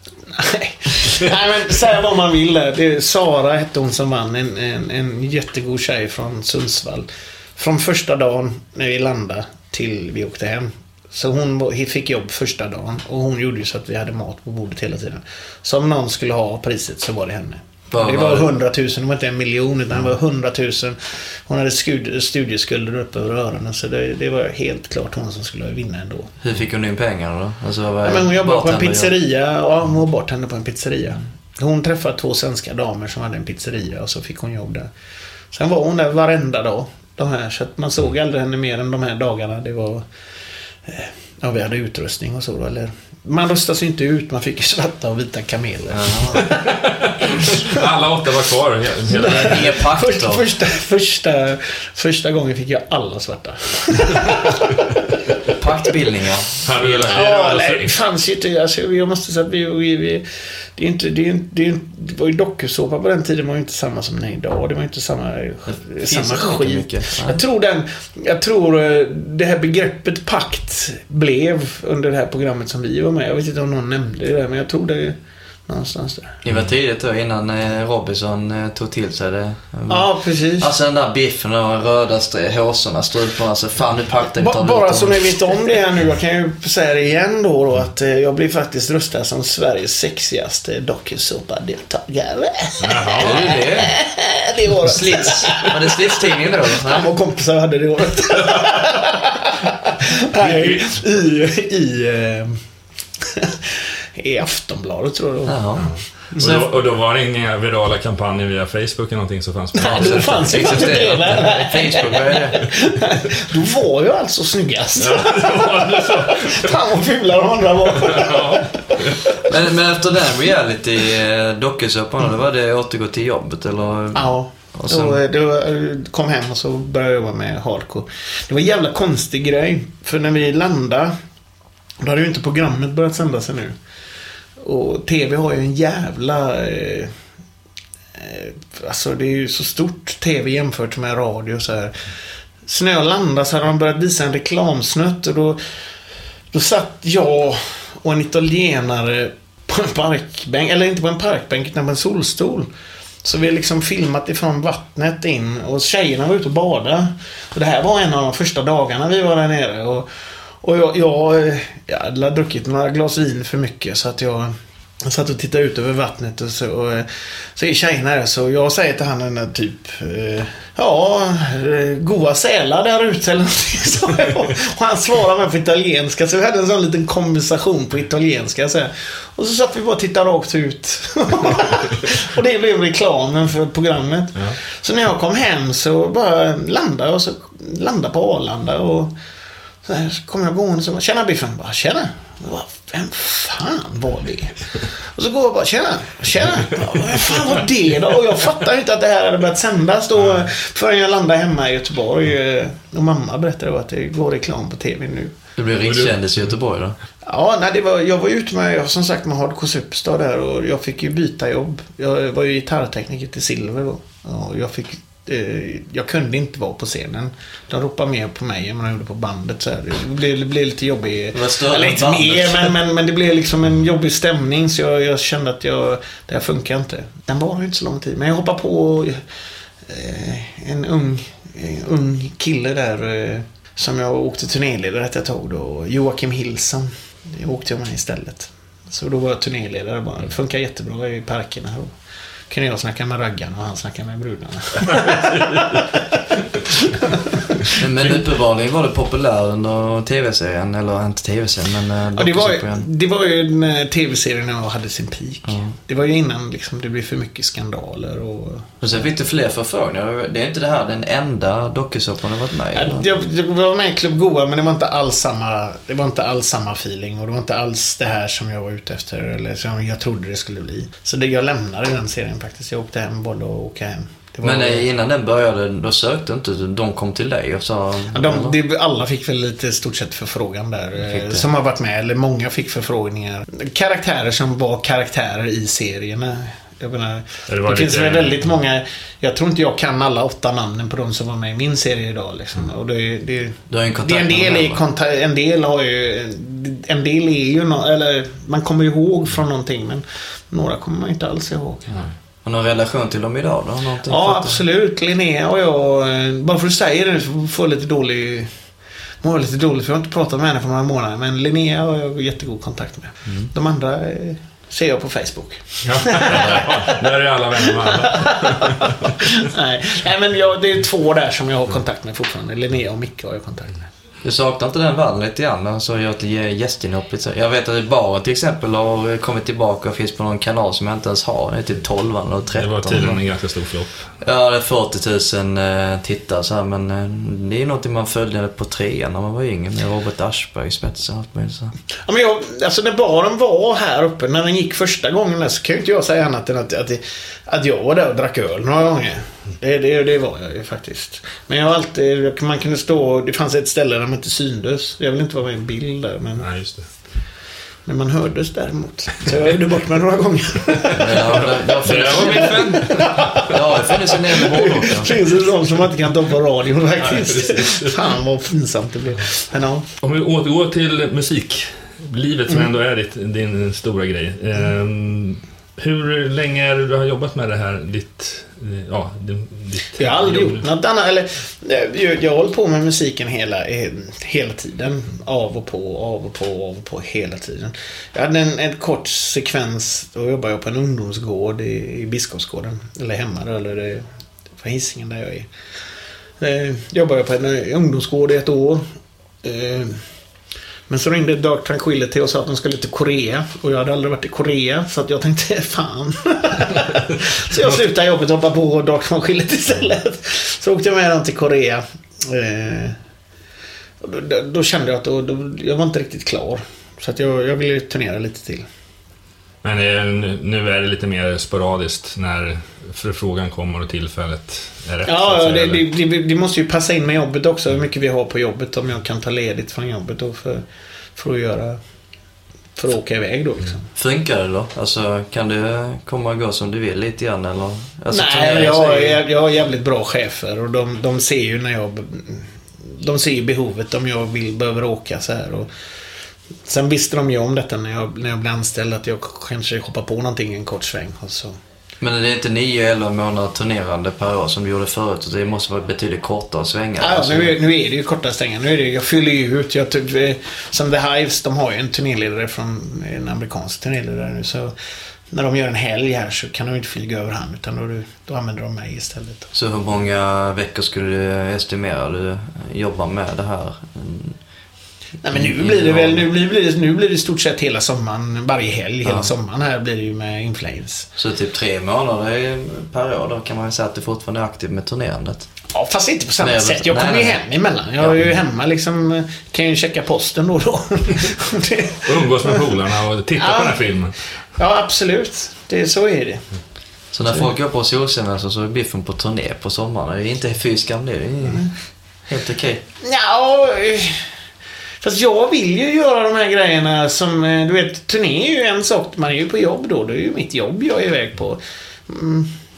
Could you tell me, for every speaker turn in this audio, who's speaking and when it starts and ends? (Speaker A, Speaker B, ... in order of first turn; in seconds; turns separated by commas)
Speaker A: 0.3-26.4, Speaker B: 17.9-18.5, Speaker B: 26.4-29.1, Speaker A: 28.0-34.9, Speaker A: 35.5-40.1, Speaker A: 40.9-46.6, Speaker B: 45.9-46.5, Speaker C: 46.7-49.7, Speaker A: 47.5-47.8, Speaker A: 49.1-54.7, Speaker B: 49.2-50.4, Speaker B: 55.5-57.3, Speaker C: 56.6-57.9, Speaker A: 57.1-76.4, Speaker B: 65.7-67.4, Speaker B: 76.4-85.3, Speaker A: 79.9-80.7, Speaker A: 84.4-102.6, Speaker C: 92.8-93.6, Speaker B: 93.2-94.0, Speaker B: 94.8-97.1, Speaker C: 100.4-100.9, Speaker A: 103.2-106.5, Speaker B: 105.5-106.7, Speaker C: 105.8-111.5, Speaker A: 109.8-119.5, Speaker B: 109.9-112.7, Speaker C: 115.0-116.7, Speaker C: 118.0-119.2, Speaker B: 119.4-125.2, Speaker A: 124.1-131.1, Speaker A: 132.0-133.8, Speaker A: 134.6-137.1, Speaker A: 138.2-142.0, Speaker A: 142.6-145.6, Speaker A: 146.5-152.7, Speaker A: 153.2-160.1, Speaker A: 160.6-189.1, Speaker A: 189.8-205.3, Speaker B: 205.6-206.9, Speaker C: 205.9-206.1, Speaker A: 207.2-229.2, Speaker B: 221.3-222.8, Speaker A: 229.8-241.9, Speaker A: 242.5-247.8, Speaker C: 245.1-245.4, Speaker B: 247.8-252.9, Speaker A: 252.1-258.8, Speaker B: 255.5-255.8, Speaker B: 258.8-263.1, Speaker A: 262.7-274.9, Speaker B: 274.4-278.6, Speaker A: 278.1-301.9, Speaker B: 281.0-281.4, Speaker C: 287.5-288.4, Speaker B: 293.7-294.8, Speaker B: 302.4-304.6, Speaker A: 304.1-308.5, Speaker A: 309.2-316.9, Speaker C: 315.9-319.1, Speaker A: 317.8-323.9, Speaker B: 324.2-333.2, Speaker C: 332.6-334.1, Speaker B: 334.2-341.8, Speaker A: 342.1-356.5, Speaker C: 356.4-356.9, Speaker A: 357.9-361.4, Speaker B: 361.0-365.1, Speaker C: 361.4-363.4, Speaker A: 362.1-369.9, Speaker C: 367.1-367.9, Speaker C: 370.0-380.6, Speaker A: 380.0-394.1, Speaker A: 394.6-395.5, Speaker A: 396.4-398.9, Speaker A: 399.4-400.1, Speaker A: 400.9-413.0, Speaker A: 414.0-418.7, Speaker C: 419.6-425.9, Speaker A: 425.1-431.8, Speaker A: 432.8-433.9, Speaker B: 433.9-439.2, Speaker A: 438.1-445.7, Speaker A: 446.6-451.6, Speaker B: 452.0-457.6, Speaker A: 457.0-464.7, Speaker A: 465.3-469.5, Speaker B: 469.5-474.4, Speaker A: 475.2-481.1, Speaker B: 475.3-476.2, Speaker B: 481.2-485.5, Speaker A: 485.7-492.6, Speaker B: 486.4-487.4, Speaker B: 488.0-488.4, Speaker C: 492.1-494.2, Speaker A: 493.4-493.8, Speaker A: 494.6-496.4, Speaker B: 497.1-501.7, Speaker B: 502.3-502.8, Speaker A: 503.0-504.3, Speaker A: 505.0-512.6